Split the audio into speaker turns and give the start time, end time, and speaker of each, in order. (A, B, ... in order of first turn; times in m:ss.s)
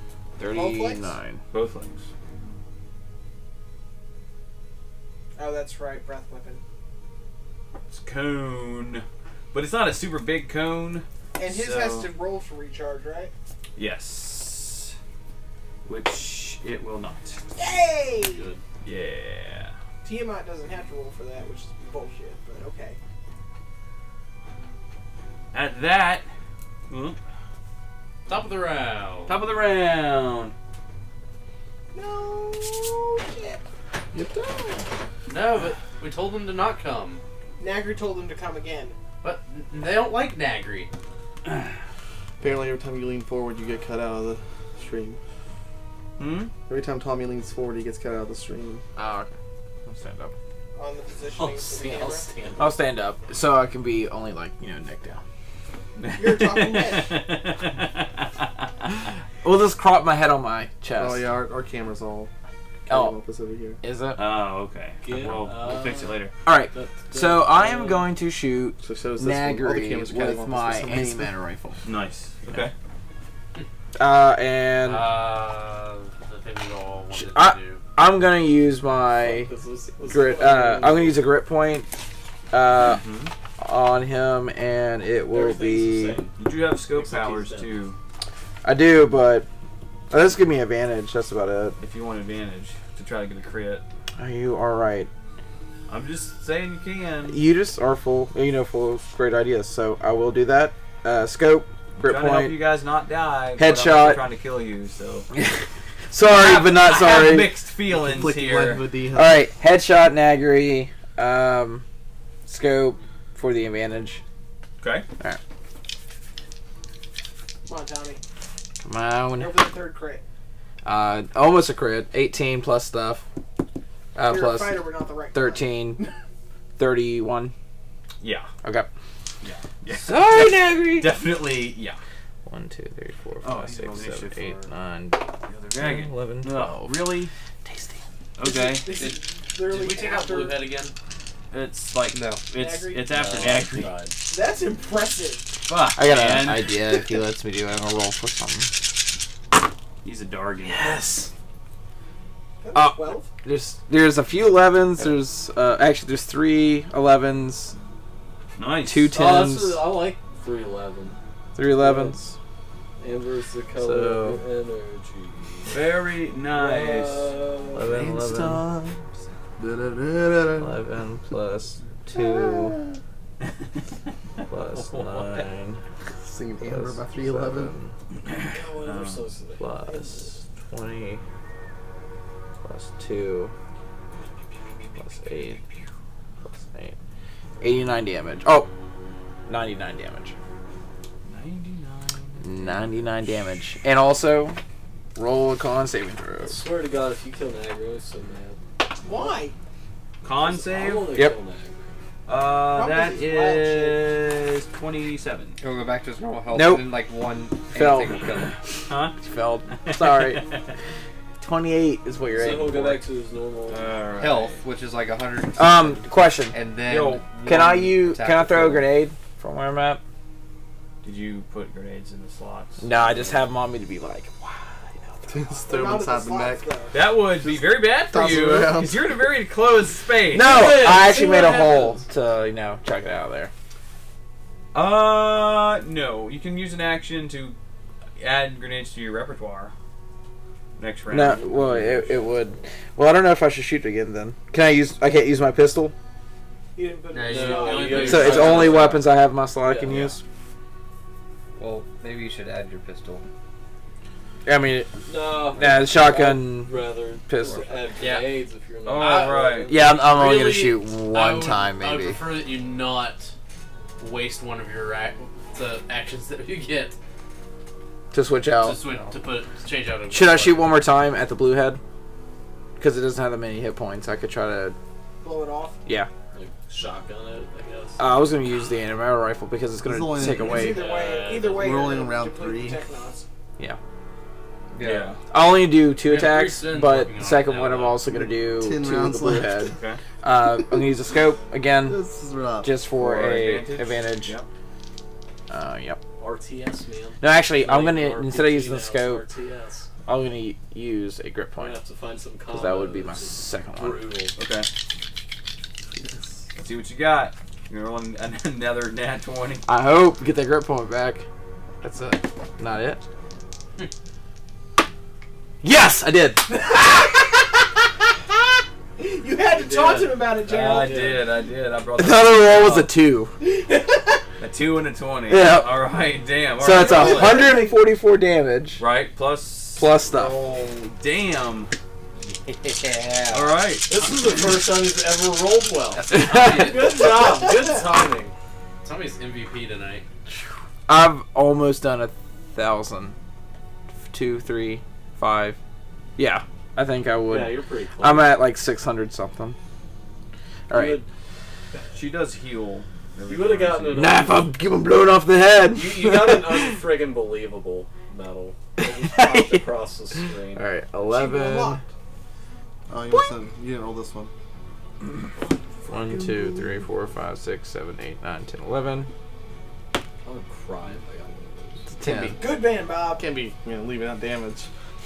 0:00.4-0:01.4 A
0:00.5-0:01.2 B
0:01.5-0:02.1 C
0:05.4-0:06.6 B
0:07.9-0:12.1 C
0:11.4-0:13.3 B
0:13.8-0:15.0 C
0:15.8-0:17.4 C
0:17.6-0:18.5 B
0:18.8-0:19.8 C
0:20.0-0:23.0 B
0:25.5-0:26.3 C
0:26.9-0:27.2 C
0:28.3-0:29.4 D
0:29.3-0:30.5 C
0:31.9-0:33.6 B
0:34.1-0:34.9 E
0:35.3-0:37.2 D
0:37.6-0:39.0 B
0:39.2-0:40.9 D
0:42.4-0:45.2 E
0:46.2-0:46.5 C
0:46.7-0:48.8 E
0:49.0-0:49.3 A
0:49.8-0:50.4 A
0:50.8-0:52.3 B
0:51.4-0:52.7 F
0:52.6-0:55.2 A
0:56.0-0:58.7 C
0:56.1-0:57.2 B
0:59.4-1:01.3 A
1:01.0-1:02.3 E
1:02.9-1:03.8 E
1:02.9-1:03.2 A
1:03.8-1:04.2 A
1:04.2-1:06.3 C
1:05.0-1:08.1 F
1:06.4-1:11.8 A
1:08.8-1:11.4 E
1:11.8-1:12.7 C
1:14.0-1:15.1 A
1:14.8-1:17.8 D
1:17.1-1:19.5 A
1:19.3-1:21.2 F
1:20.1-1:21.9 A
1:22.5-1:23.0 A
1:22.8-1:23.3 C
1:23.6-1:26.2 A
1:25.3-1:26.4 F
1:26.4-1:28.0 C
1:26.9-1:27.7 F
1:28.6-1:29.5 A
1:30.1-1:31.8 A
1:31.8-1:33.8 C
1:34.2-1:35.1 A
1:35.9-1:37.4 C
1:37.3-1:42.6 A
1:42.0-1:45.3 C
1:43.6-1:44.2 A
1:45.3-1:47.6 A
1:46.3-1:48.9 C
1:47.9-1:49.4 E
1:49.1-1:51.8 A
1:52.5-1:54.2 A
1:54.8-1:55.1 C
1:57.7-1:58.2 B
1:58.8-1:59.6 A
1:59.4-2:00.2 B
2:00.8-2:03.2 A
2:04.2-2:06.1 A
2:04.3-2:06.1 B
2:06.8-2:07.5 A
2:08.2-2:08.5 C
2:09.4-2:12.0 C
2:09.9-2:11.2 A
2:12.4-2:18.0 A
2:13.4-2:14.7 C
2:15.5-2:17.3 C
2:18.4-2:19.0 C
2:18.4-2:20.6 B
2:18.9-2:21.0 D
2:21.5-2:23.9 C
2:22.1-2:22.4 G
2:22.5-2:23.3 B
2:23.1-2:24.2 F
2:23.2-2:23.5 D
2:24.3-2:25.5 B
2:25.7-2:26.8 C
2:25.9-2:28.9 A
2:30.0-2:30.9 C
2:30.7-2:31.3 F
2:32.6-2:33.3 B
2:32.7-2:37.8 A
2:38.6-2:39.1 C
2:38.9-2:39.9 A
2:39.1-2:41.2 F
2:41.6-2:42.4 A
2:41.8-2:42.2 F
2:43.0-2:45.8 F
2:43.8-2:44.4 A
2:45.7-2:47.4 C
2:46.5-2:48.0 F
2:47.7-2:48.7 A
2:47.9-2:49.0 E
2:49.6-2:50.8 E
2:50.5-2:52.8 A
2:52.1-2:52.9 E
2:54.5-2:55.9 A
2:54.8-2:55.4 C
2:56.2-2:57.8 E
2:56.6-2:58.0 A
2:58.2-2:59.3 C
2:58.4-3:00.4 F
2:59.6-3:01.2 A
3:02.6-3:03.5 A
3:05.0-3:05.6 A
3:06.4-3:07.0 A
3:07.6-3:08.7 A
3:09.5-3:10.4 A
3:11.3-3:13.0 C
3:12.4-3:14.6 A
3:15.2-3:16.6 A
3:16.4-3:19.4 F
3:19.0-3:19.6 B
3:20.2-3:21.2 C
3:20.3-3:21.9 F
3:22.3-3:25.6 C
3:22.7-3:24.0 B
3:25.6-3:28.6 G
3:26.5-3:26.9 A
3:27.7-3:28.6 A
3:28.9-3:29.2 C
3:29.2-3:30.5 A
3:29.7-3:30.7 C
3:31.4-3:33.0 A
3:32.3-3:34.1 F
3:33.7-3:34.6 C
3:34.2-3:39.0 G
3:35.6-3:36.6 A
3:36.8-3:37.8 C
3:37.4-3:37.8 F
3:37.4-3:40.0 A
3:41.0-3:43.4 C
3:42.8-3:45.6 A
3:45.3-3:46.7 E
3:45.7-3:47.0 B
3:46.9-3:51.0 C
3:47.4-3:49.2 E
3:50.3-3:53.5 A
3:50.6-3:51.9 D
3:51.1-3:51.7 B
3:54.7-3:57.6 C
3:58.2-3:59.7 C
4:00.8-4:02.2 C
4:01.1-4:06.0 A
4:06.8-4:08.4 B
4:07.1-4:09.0 D
4:07.2-4:09.1 F
4:08.0-4:10.2 A
4:08.5-4:08.8 C
4:09.6-4:10.0 F
4:09.9-4:10.2 C
4:11.6-4:13.2 G
4:14.4-4:17.8 A
4:15.0-4:19.9 F
4:17.4-4:18.4 G
4:18.8-4:19.7 C
4:19.0-4:23.3 D
4:19.7-4:22.2 A
4:24.0-4:27.0 D
4:28.1-4:28.8 A
4:28.5-4:30.7 D
4:30.1-4:31.8 A
4:32.8-4:34.8 A
4:35.2-4:35.8 B
4:36.3-4:38.0 F
4:38.0-4:40.8 A
4:39.8-4:40.8 E
4:40.4-4:43.3 B
4:40.6-4:42.0 D
4:41.6-4:42.8 E
4:44.8-4:45.1 G
4:44.8-4:45.2 C
4:45.3-4:52.0 A
4:46.0-4:48.1 D
4:48.1-4:49.8 E
4:49.7-4:50.0 C
4:51.8-4:52.8 E
4:52.6-4:54.4 A
4:53.0-4:54.5 C
4:55.5-4:56.0 A
4:56.2-4:59.9 F
4:57.2-4:59.2 A
5:00.1-5:01.8 A
5:01.6-5:04.4 F
5:02.5-5:04.0 A
5:04.4-5:04.7 C
5:06.6-5:09.6 C
5:09.7-5:11.3 A
5:11.8-5:13.0 A
5:15.6-5:17.1 A
5:16.7-5:17.2 B
5:19.0-5:21.0 B
5:19.5-5:21.3 F
5:20.4-5:22.9 C
5:22.0-5:23.4 A
5:23.4-5:24.2 B
5:24.4-5:27.6 C
5:25.3-5:25.8 A
5:26.6-5:28.8 A
5:26.8-5:27.8 B
5:28.8-5:31.7 C
5:29.8-5:30.4 A
5:33.2-5:33.5 G
5:33.3-5:34.3 C
5:33.8-5:38.4 F
5:36.1-5:36.7 C
5:36.2-5:36.8 A
5:38.8-5:40.0 D
5:40.9-5:43.2 A
5:44.1-5:45.6 A
5:46.2-5:49.6 A
5:47.3-5:48.3 F
5:50.7-5:51.0 A
5:50.7-5:51.1 F
5:51.9-5:54.2 C
5:53.2-5:54.5 F
5:54.0-5:56.8 A
5:55.7-6:00.7 F
5:58.8-5:59.6 A
6:00.5-6:01.8 A
6:01.1-6:01.8 B
6:02.9-6:04.3 E
6:05.9-6:09.1 A
6:05.9-6:06.9 E
6:10.2-6:11.9 F
6:11.9-6:12.4 A
6:12.1-6:13.2 B
6:13.1-6:14.7 E